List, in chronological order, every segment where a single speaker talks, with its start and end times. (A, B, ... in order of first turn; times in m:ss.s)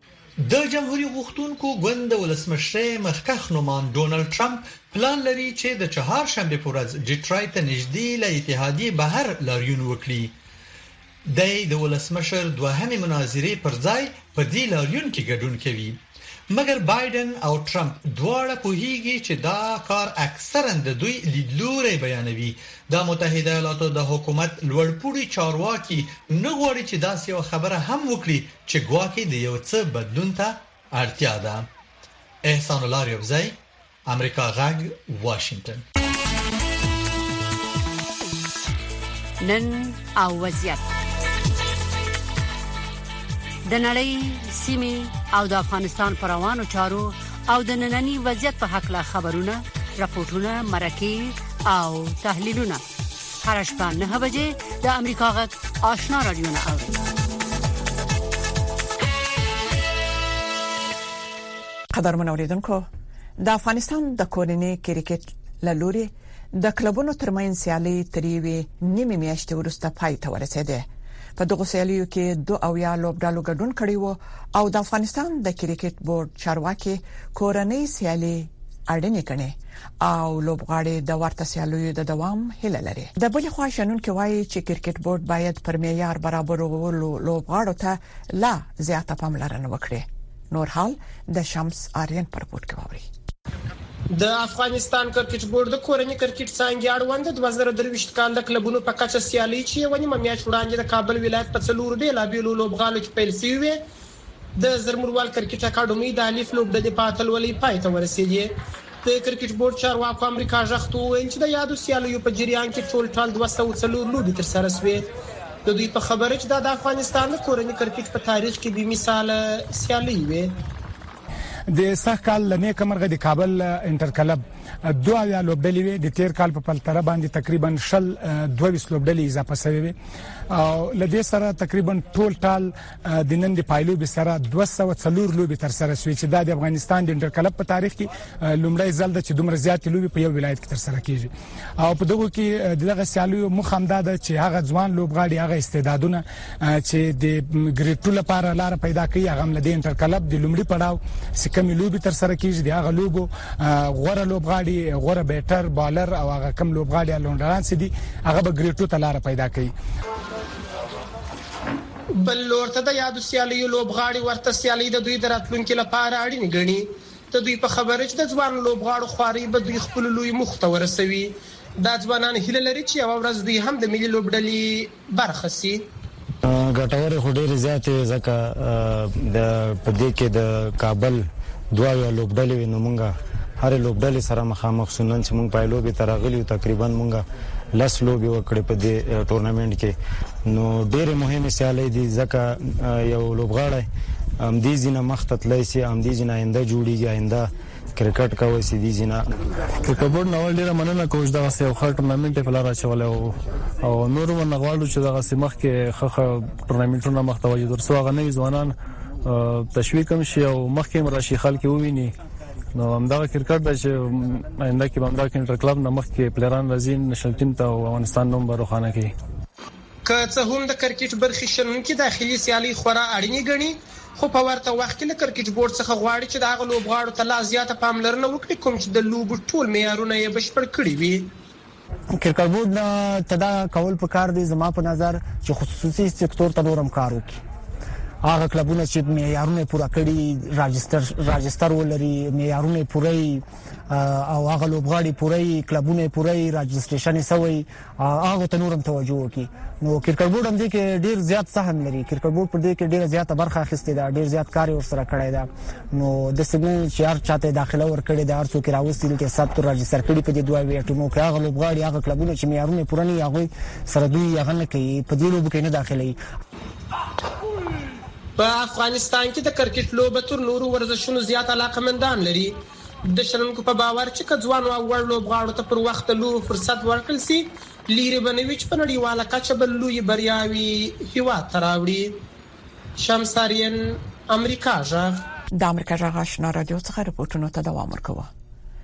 0:00.4-0:10.3 A
0:11.2-0:16.0 A
0:16.5-0:31.7 A
0:32.4-0:33.6 A
0:34.1-0:35.8 A
0:39.4-0:40.8 B
0:43.6-0:52.8 B
0:53.4-0:56.9 B
1:01.9-1:02.9 C
1:03.4-1:33.1 C
1:34.1-1:43.8 D
1:44.6-1:55.0 D
1:55.6-2:00.5 D
2:01.7-2:09.9 E
2:10.5-2:39.7 E
2:42.2-2:55.8 D
2:56.4-3:09.9 F
3:10.5-3:13.9 F
3:14.4-3:19.2 F
3:19.9-3:28.7 G
3:29.3-3:32.1 G
3:32.8-3:39.1 G
3:40.0-3:51.3 D
3:52.1-3:57.4 H
3:58.2-4:26.2 H
4:28.4-4:42.2 D
4:43.0-4:45.2 D
4:45.5-4:48.3 C